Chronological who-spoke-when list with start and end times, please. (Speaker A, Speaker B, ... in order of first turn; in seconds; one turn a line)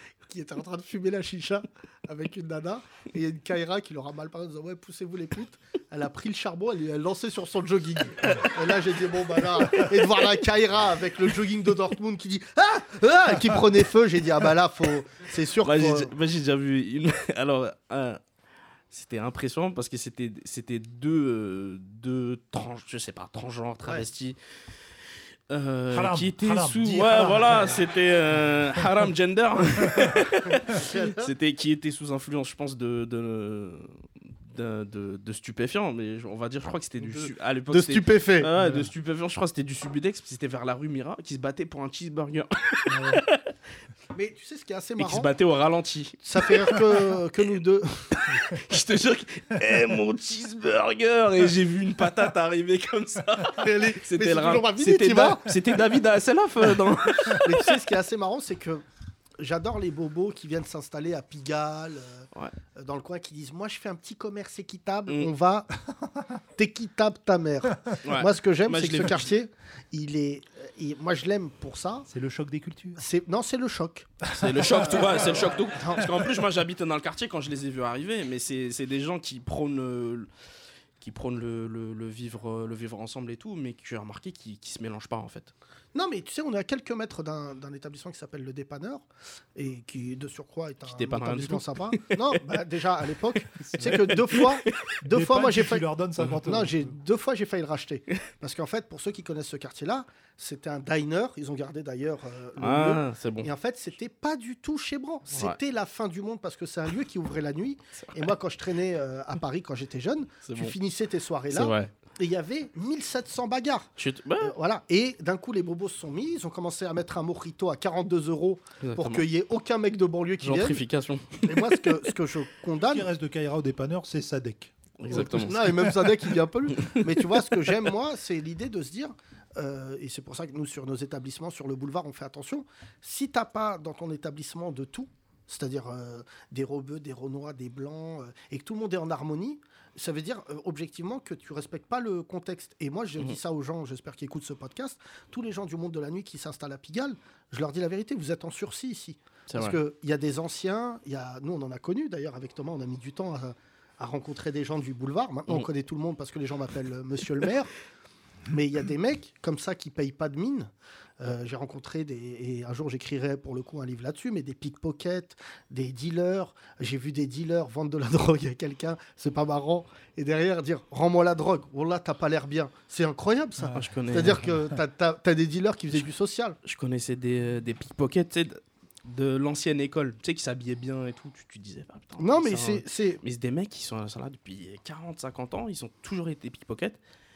Speaker A: 0.3-16.1
Speaker B: 15.6-18.2
Speaker B: 18.9-24.4
Speaker B: 25.5-33.9
Speaker C: 25.9-27.8
Speaker A: 30.5-31.3
Speaker B: 34.5-43.5
Speaker A: 37.0-38.5
Speaker C: 38.5-38.9
Speaker C: 42.9-43.2
Speaker A: 44.1-45.3
Speaker B: 45.0-47.1
Speaker A: 46.2-48.1
Speaker B: 48.2-57.8
Speaker A: 53.6-55.5
Speaker A: 57.2-58.8
Speaker A: 59.4-65.7
Speaker A: 66.5-72.1
Speaker B: 68.0-69.3
Speaker C: 72.1-73.0
Speaker A: 73.0-74.1
Speaker B: 74.3-80.3
Speaker C: 74.4-74.6
Speaker A: 74.7-76.3
Speaker B: 81.0-85.5
Speaker A: 85.9-120.8
Speaker B: 90.8-92.5
Speaker B: 93.6-94.9
Speaker C: 95.0-96.9
Speaker B: 102.6-103.5
Speaker B: 105.3-105.6
Speaker B: 108.0-108.3
Speaker B: 110.4-110.7
Speaker B: 111.5-111.9
Speaker B: 114.0-114.5
Speaker B: 118.8-119.2
Speaker B: 120.4-122.0
Speaker A: 121.4-123.1
Speaker C: 122.8-126.1
Speaker B: 125.0-125.8
Speaker A: 125.1-157.7
Speaker B: 126.8-127.2
Speaker B: 149.5-149.8
Speaker A: 158.5-176.6
Speaker C: 173.6-173.8
Speaker B: 173.7-174.5
Speaker B: 176.6-187.0
Speaker A: 182.2-183.2